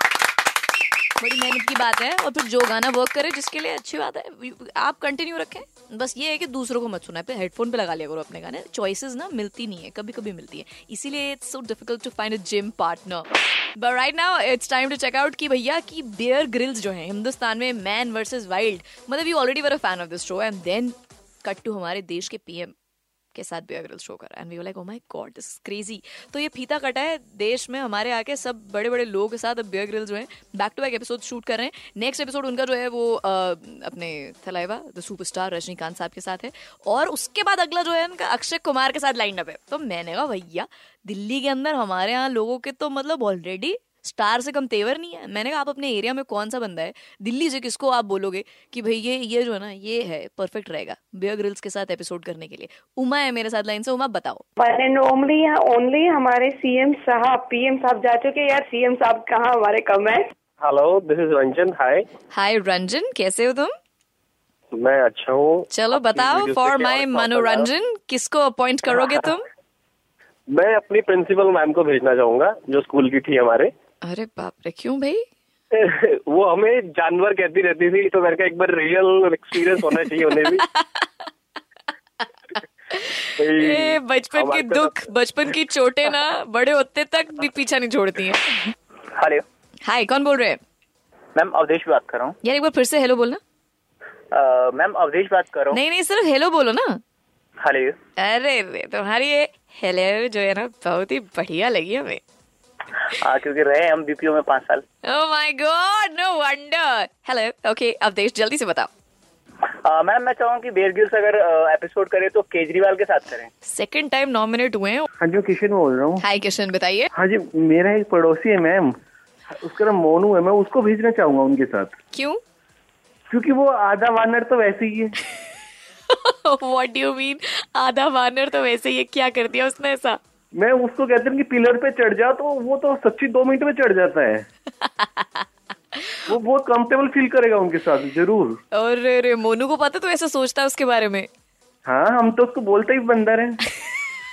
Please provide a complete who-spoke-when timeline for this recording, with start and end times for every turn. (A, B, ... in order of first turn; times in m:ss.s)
0:01.2-0:22.7 A
0:23.3-0:54.4 A
0:54.6-1:00.3 B
1:00.6-1:02.1 C
1:02.3-1:03.7 A
1:04.7-1:07.5 C
1:05.7-1:09.4 A
1:10.5-1:13.7 C
1:14.0-1:15.2 A
1:15.7-1:20.7 C
1:20.3-1:21.1 A
1:22.9-1:28.7 A
1:23.4-1:24.9 C
1:29.1-1:29.4 D
1:29.8-1:30.6 A
1:31.4-1:32.4 D
1:32.4-1:33.4 A
1:34.3-1:35.8 D
1:35.7-1:37.0 A
1:37.6-1:38.0 D
1:38.2-1:42.2 A
1:43.1-1:44.8 D
1:45.0-1:48.9 A
1:49.8-1:53.5 D
1:53.6-1:55.1 A
1:55.2-1:56.2 E
1:56.2-1:57.1 A
1:57.2-1:58.9 E
1:59.5-2:01.9 E
2:02.1-2:02.4 A
2:03.3-2:05.2 E
2:06.1-2:10.2 A
2:10.6-2:14.5 E
2:14.8-2:15.4 A
2:16.3-2:18.6 E
2:18.7-2:21.3 A
2:21.9-2:23.6 E